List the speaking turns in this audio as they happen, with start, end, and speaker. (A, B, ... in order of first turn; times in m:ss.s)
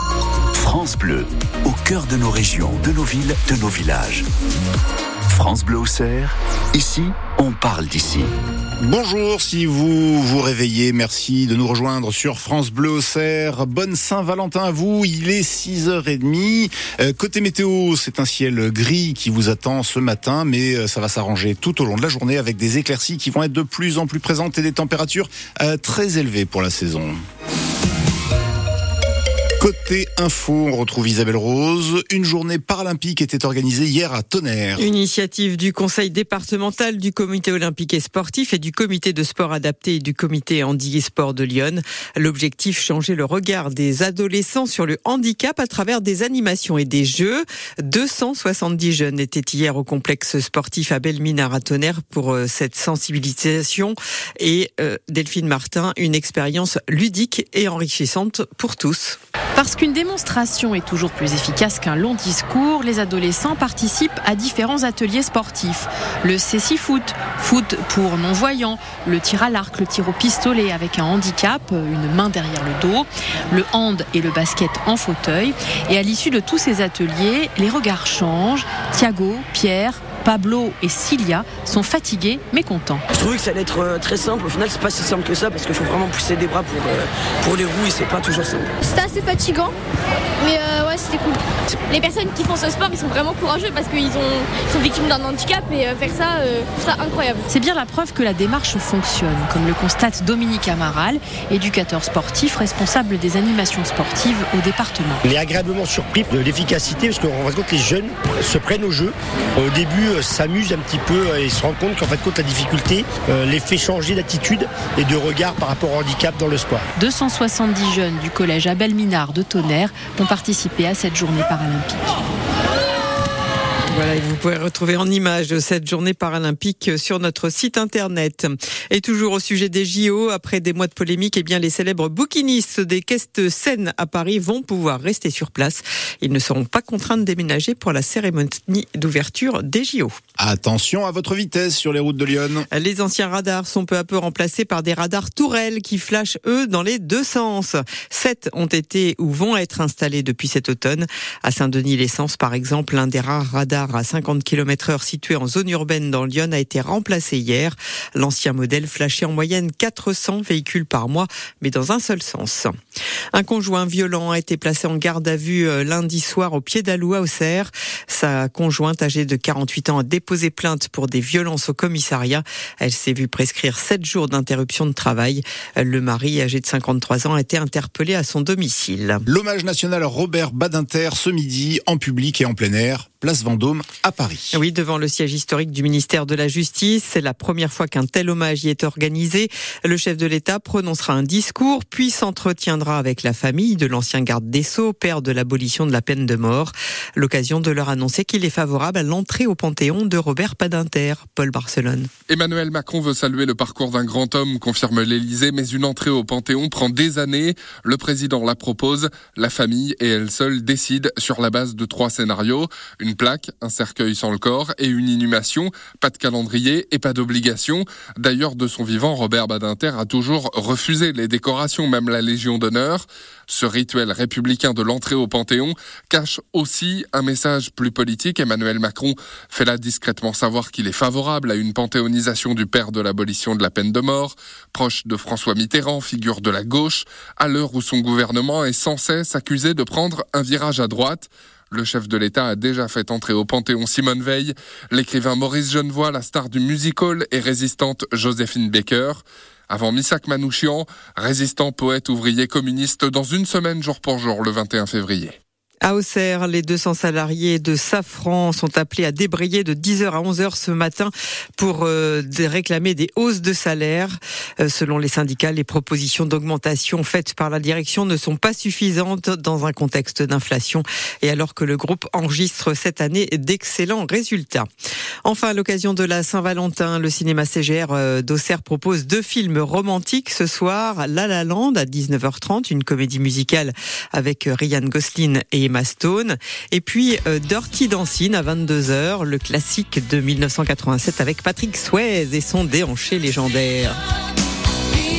0:00.6-0:04.2 A
0:05.3-0:08.3 A
0:08.8-0:27.2 B
0:29.6-0:34.9 B
0:34.8-0:59.2 C
0:59.5-1:23.0 D
1:23.1-1:28.7 E
1:28.8-1:29.8 F
1:30.4-1:37.5 F
1:37.5-1:45.2 D
1:45.2-1:56.8 G
1:57.0-2:02.1 D
2:03.8-2:20.2 C
2:20.4-2:22.6 B
2:22.7-2:42.7 C
2:43.3-2:59.2 C
2:59.3-3:04.6 B
3:04.5-3:22.1 C
3:22.3-4:15.4 H
4:15.8-4:34.7 C
4:35.2-4:54.0 C